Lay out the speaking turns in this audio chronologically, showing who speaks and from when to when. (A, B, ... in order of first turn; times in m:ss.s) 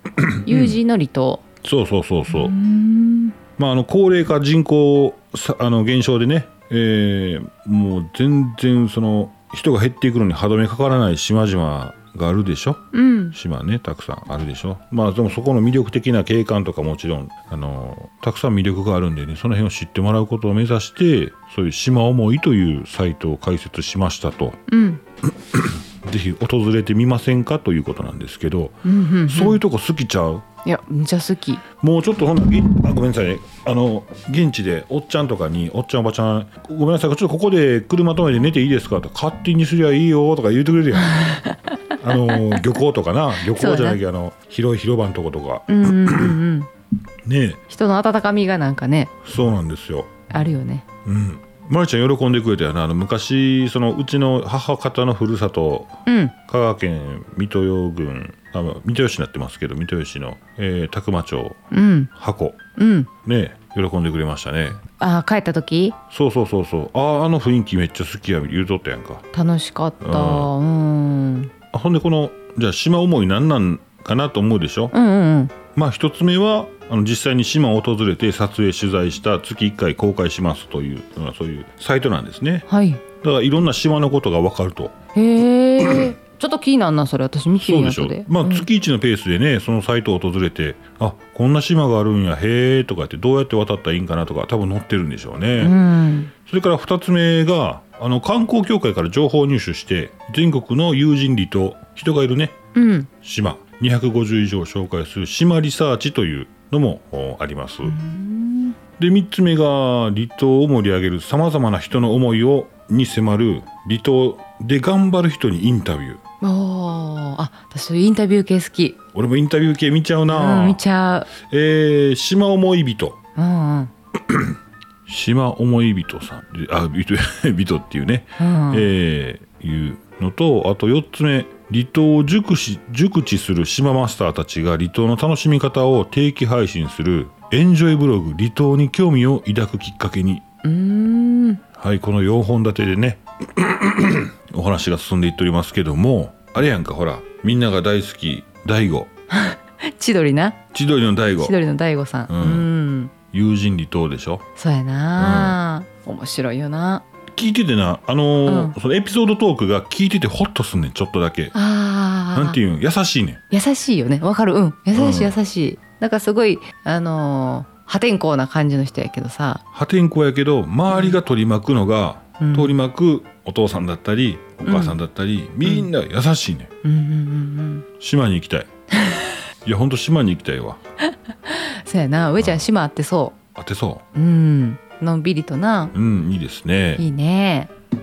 0:00.2-0:00.8 A
0:00.5-0:01.4 B
0:01.6-0:02.5 A
0:02.3-0:03.4 B
0:03.6-0:24.6 A
0:12.9-0:13.4 B
0:24.7-0:25.0 B
0:25.3-0:30.5 A
0:28.8-0:29.6 B
0:30.6-0:31.6 B
0:31.8-0:41.3 A
0:41.0-0:41.6 B
0:42.0-0:46.4 A
0:43.4-0:44.0 B
0:45.7-0:46.7 B
0:47.2-0:47.6 A
0:47.7-0:49.1 B
0:49.2-0:50.1 A
0:50.3-0:50.9 B
0:51.0-1:01.6 A
0:56.1-0:56.4 B
1:01.7-1:02.1 B
1:02.2-1:02.6 A
1:02.8-1:03.1 B
1:03.2-1:04.8 A
1:05.0-1:06.0 B
1:06.1-1:09.2 A
1:09.3-1:11.5 B
1:10.0-1:10.5 A
1:11.7-1:14.9 A
1:14.9-1:15.5 B
1:15.7-1:22.7 A
1:22.7-1:23.0 B
1:23.2-1:25.0 A
1:25.2-1:28.7 B
1:27.6-1:35.8 A
1:35.6-1:36.3 B
1:36.4-1:42.6 A
1:42.7-1:43.1 B
1:43.1-1:48.0 A
1:47.9-1:48.8 B
1:49.0-1:56.2 A
1:56.4-1:59.0 B
1:59.1-2:03.2 A
2:00.3-2:01.3 B
2:03.4-2:03.9 B
2:04.3-2:20.4 A
2:08.4-2:08.9 B
2:20.6-2:21.6 B
2:21.7-2:29.1 A
2:29.3-2:30.6 B
2:30.7-2:31.6 A
2:31.4-2:33.1 B
2:32.3-2:32.7 A
2:33.3-2:34.4 A
2:34.6-2:37.0 B
2:35.2-2:35.6 A
2:37.3-2:41.5 A
2:38.5-2:38.8 B
2:41.5-2:42.6 B
2:42.3-2:43.4 A
2:43.5-2:49.6 B
2:45.0-2:45.3 A
2:49.7-2:56.7 A
2:50.9-2:51.2 B
2:52.4-2:52.8 B
2:54.6-2:55.0 B
2:56.8-2:57.8 B
2:58.0-2:58.7 A
2:59.0-2:59.3 B
2:59.6-3:00.8 A
3:01.5-3:03.4 B
3:03.6-3:04.0 A
3:04.1-3:05.9 B
3:05.9-3:07.0 A
3:07.0-3:07.7 B